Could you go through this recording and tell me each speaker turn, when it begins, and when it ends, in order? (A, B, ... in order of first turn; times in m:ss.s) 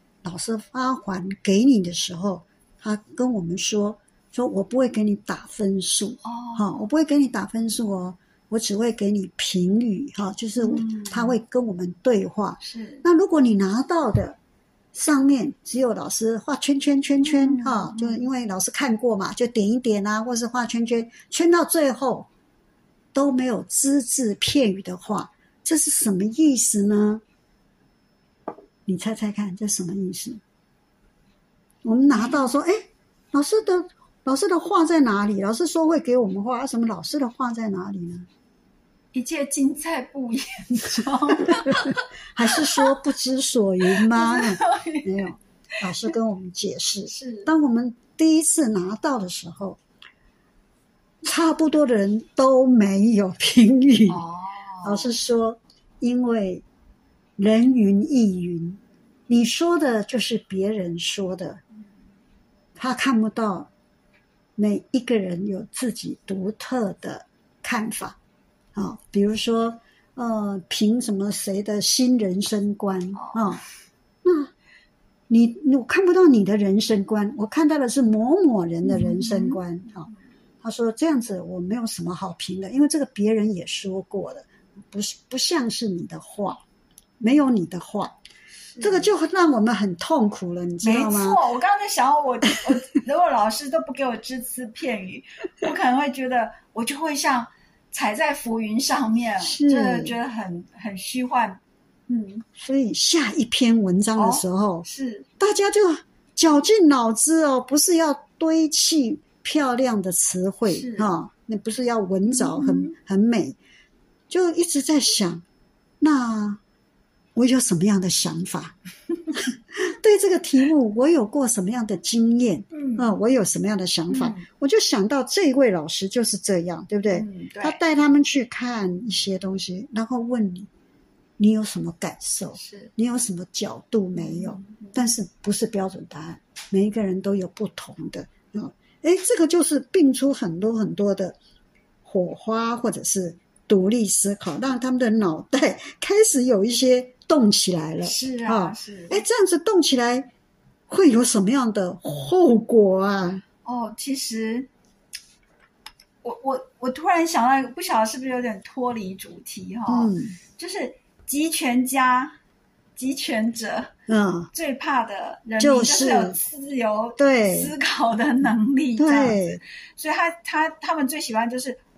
0:00.2-0:14.4 A
0:06.2-0:06.6 B
0:10.6-0:11.4 B
0:12.6-0:13.0 B
0:14.9-0:22.3 A
0:17.2-0:18.2 B
0:23.1-0:27.2 A
0:28.9-0:30.4 A
0:31.8-0:38.3 A
0:32.1-0:32.4 B
0:39.1-0:42.9 B
0:41.5-0:49.8 A
0:43.9-0:45.3 B
0:47.1-0:47.5 B
0:51.2-0:54.2 A
0:54.1-0:55.1 B
0:54.8-0:56.6 A
0:57.4-1:01.6 A
1:02.8-1:03.7 A
1:04.6-1:08.2 A
1:08.8-1:13.6 A
1:13.2-1:13.4 B
1:14.2-1:14.5 A
1:15.3-1:20.1 A
1:18.8-1:20.1 B
1:20.6-1:26.6 A
1:27.2-1:28.2 A
1:28.7-1:29.1 B
1:28.8-1:31.4 A
1:30.8-1:42.4 B
1:39.4-1:40.2 A
1:42.6-1:44.9 A
1:44.2-1:45.3 B
1:45.4-1:53.6 A
1:50.7-1:51.1 B
1:52.3-1:53.0 B
1:54.3-1:55.4 A
1:56.0-1:56.6 A
1:57.4-1:58.8 A
1:59.4-2:10.7 A
2:02.7-2:03.1 B
2:04.1-2:04.5 B
2:07.1-2:07.8 B
2:11.4-2:21.4 A
2:12.6-2:12.9 B
2:14.2-2:15.0 B
2:22.0-2:30.3 A
2:28.0-2:29.2 B
2:30.9-2:33.4 A
2:33.6-2:34.7 B
2:36.2-2:42.4 B
2:39.9-2:40.4 A
2:43.0-2:43.9 B
2:44.1-2:44.5 A
2:44.5-2:49.4 B
2:45.6-2:46.4 A
2:47.2-2:47.7 A
2:49.0-2:49.6 A
2:50.0-2:51.8 B